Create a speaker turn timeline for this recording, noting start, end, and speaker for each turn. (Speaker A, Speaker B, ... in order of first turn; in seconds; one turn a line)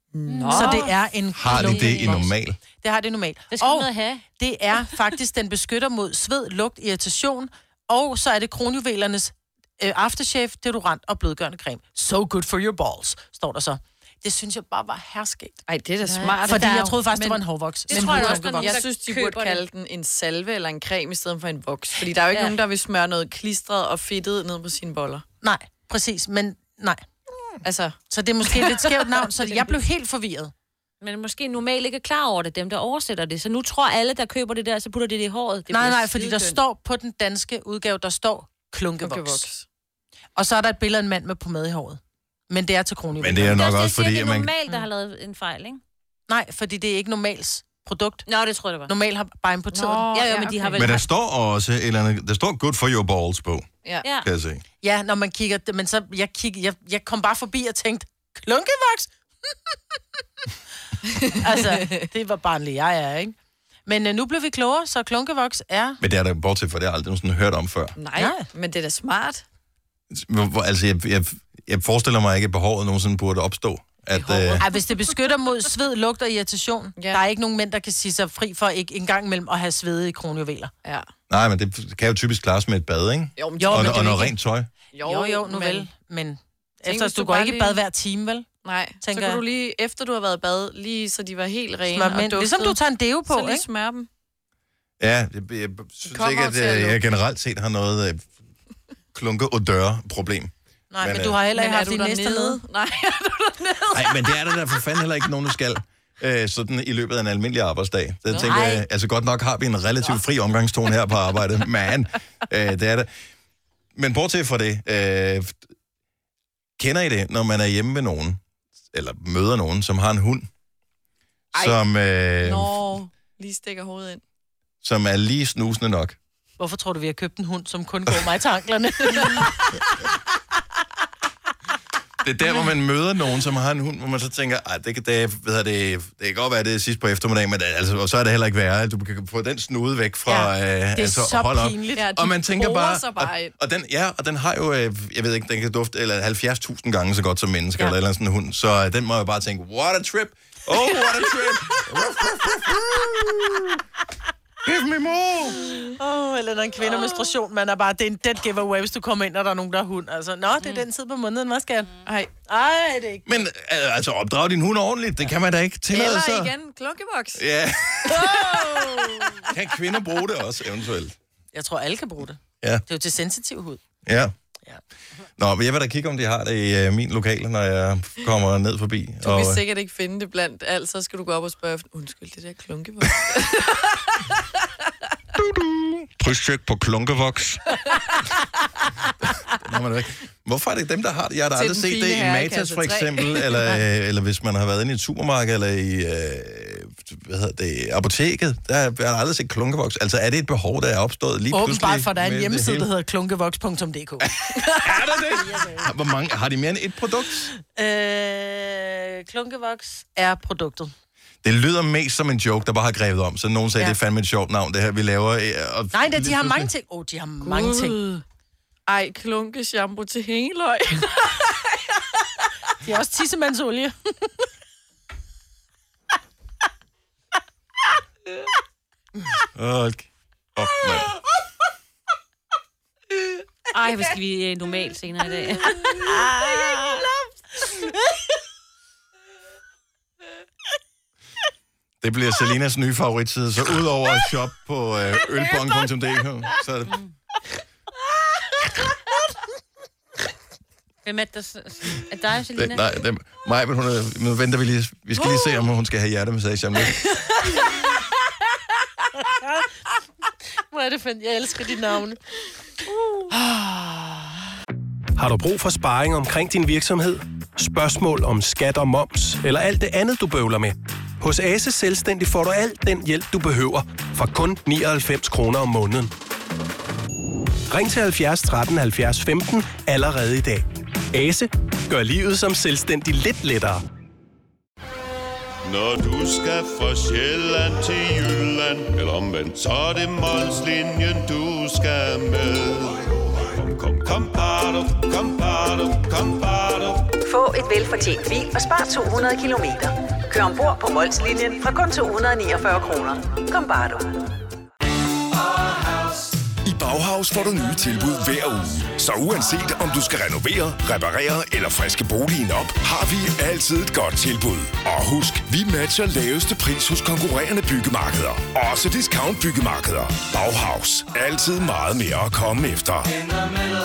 Speaker A: 0.1-0.9
Speaker B: 0.3-0.9
Speaker C: 0.5-15.6
Speaker D: 1.3-2.6
Speaker B: 1.5-2.2
Speaker B: 3.5-4.3
Speaker A: 15.7-25.2
Speaker B: 16.1-17.0
Speaker C: 16.5-18.8
Speaker B: 17.9-19.6
Speaker C: 25.4-27.0
Speaker A: 27.6-28.0
Speaker C: 28.1-30.5
Speaker A: 28.5-28.9
Speaker B: 31.0-36.6
Speaker C: 35.7-39.5
Speaker A: 39.0-39.7
Speaker C: 40.4-42.0
Speaker C: 42.5-43.7
Speaker D: 43.2-44.5
Speaker B: 43.5-45.8
Speaker C: 46.3-48.3
Speaker B: 48.3-48.9
Speaker C: 48.9-50.4
Speaker A: 49.7-50.9
Speaker B: 50.1-51.0
Speaker D: 50.8-53.7
Speaker B: 54.0-54.3
Speaker D: 54.2-54.6
Speaker C: 54.8-59.8
Speaker A: 61.1-62.0
Speaker C: 61.3-63.4
Speaker C: 63.9-66.0
Speaker D: 66.0-68.0
Speaker A: 68.0-69.4
Speaker C: 68.2-68.5
Speaker D: 70.1-74.7
Speaker A: 74.2-74.7
Speaker C: 74.6-80.7
Speaker A: 77.0-77.2
Speaker A: 80.8-81.1
Speaker D: 81.3-84.7
Speaker A: 83.4-84.3
Speaker C: 83.6-84.3
Speaker A: 84.9-85.9
Speaker C: 85.0-88.5
Speaker A: 86.8-87.8
Speaker A: 88.6-94.1
Speaker C: 89.0-89.4
Speaker C: 91.9-93.7
Speaker D: 95.0-98.3
Speaker A: 96.0-97.0
Speaker D: 99.1-101.4
Speaker C: 100.9-102.6
Speaker A: 101.5-104.3
Speaker D: 103.9-113.1
Speaker A: 108.3-108.6
Speaker C: 108.4-108.8
Speaker D: 114.0-115.6
Speaker D: 116.8-118.4
Speaker D: 118.9-120.5
Speaker A: 121.5-121.8
Speaker D: 121.5-122.9
Speaker A: 122.4-124.2
Speaker D: 124.8-126.2
Speaker C: 126.6-129.8
Speaker D: 132.2-153.8
Speaker C: 140.3-142.1
Speaker A: 142.0-143.5
Speaker D: 154.6-155.6
Speaker C: 155.9-161.9
Speaker A: 162.1-162.3
Speaker C: 162.5-163.4
Speaker D: 163.3-166.5
Speaker A: 165.9-167.4
Speaker D: 167.3-168.6
Speaker A: 168.1-168.3
Speaker C: 168.2-169.5
Speaker D: 169.4-171.2
Speaker C: 171.5-173.8
Speaker D: 174.1-174.3
Speaker D: 175.4-179.6
Speaker A: 179.2-184.2
Speaker D: 185.3-187.8
Speaker D: 189.5-202.9
Speaker A: 191.6-193.8
Speaker C: 201.5-205.9
Speaker D: 204.8-207.5
Speaker C: 207.5-210.9
Speaker D: 211.4-216.7
Speaker C: 215.9-218.0
Speaker A: 217.4-218.2
Speaker A: 218.9-221.5
Speaker C: 222.8-223.9
Speaker D: 229.6-231.1
Speaker B: 233.7-236.1
Speaker C: 236.0-237.9
Speaker D: 242.0-247.0
Speaker B: 251.0-252.9
Speaker D: 252.6-257.1
Speaker C: 259.2-259.6
Speaker C: 260.7-262.2
Speaker C: 263.3-264.3
Speaker E: 265.2-276.1
Speaker E: 277.7-283.8
Speaker F: 285.6-297.1
Speaker G: 297.2-304.3
Speaker H: 306.6-323.1